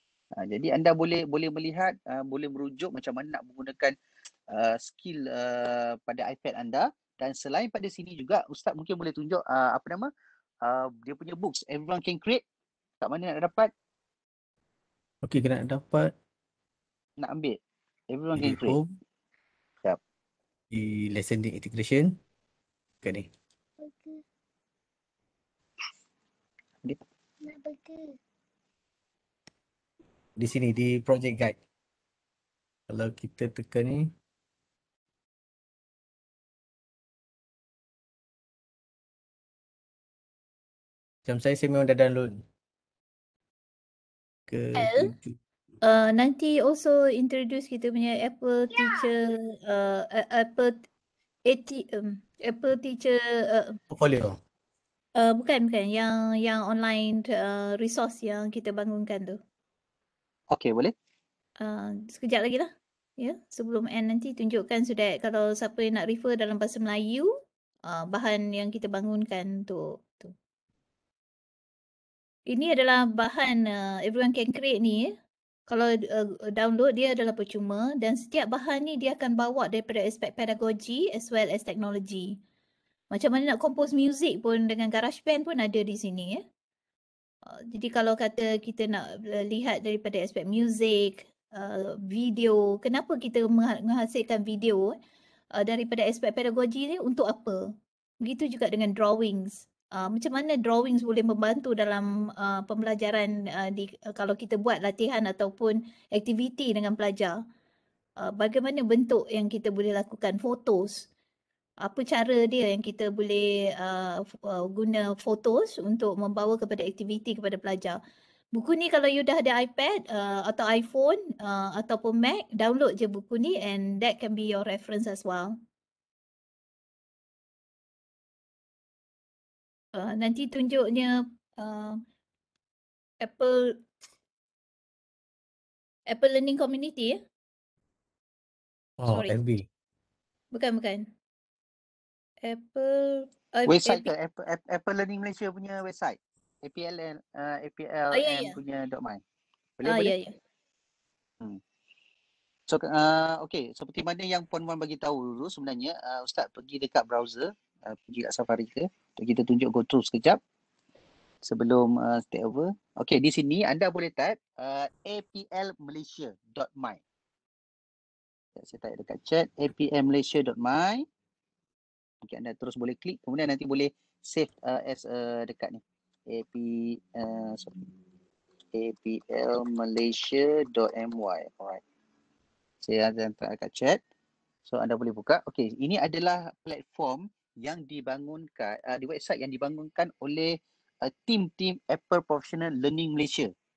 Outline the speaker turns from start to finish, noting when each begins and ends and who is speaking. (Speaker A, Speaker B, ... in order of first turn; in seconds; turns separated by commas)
Speaker A: 0.4-3.9, Speaker A: 4.5-10.1, Speaker A: 10.6-12.4, Speaker A: 13.0-13.7, Speaker B: 15.2-16.1, Speaker A: 17.2-17.6, Speaker A: 18.1-18.8, Speaker B: 18.4-18.9, Speaker B: 20.7-22.1, Speaker B: 23.0-23.3, Speaker B: 30.4-31.6, Speaker B: 32.9-34.1, Speaker B: 41.2-42.4, Speaker B: 44.5-45.4, Speaker C: 44.8-45.1, Speaker C: 45.8-50.8, Speaker C: 51.5-53.8, Speaker B: 53.9-54.4, Speaker C: 55.2-59.4, Speaker A: 60.5-60.9, Speaker C: 61.6-70.3, Speaker C: 72.5-75.1, Speaker C: 75.7-82.4, Speaker C: 83.1-86.4, Speaker C: 87.5-94.9, Speaker C: 95.5-97.6, Speaker C: 98.2-107.4, Speaker C: 108.2-111.1, Speaker C: 111.8-118.0, Speaker C: 118.5-125.6, Speaker C: 129.9-132.0, Speaker C: 133.2-133.8, Speaker C: 136.1-137.2, Speaker B: 139.0-139.7, Speaker C: 139.1-139.3, Speaker C: 140.5-141.1, Speaker C: 142.4-144.1, Speaker A: 143.7-149.2, Speaker C: 148.1-148.6, Speaker A: 149.8-150.1, Speaker C: 149.8-150.3, Speaker A: 152.7-160.4, Speaker A: 161.4-167.0, Speaker A: 168.6-171.0, Speaker A: 172.2-177.9, Speaker A: 178.7-181.8, Speaker A: 182.8-184.0, Speaker A: 184.7-193.5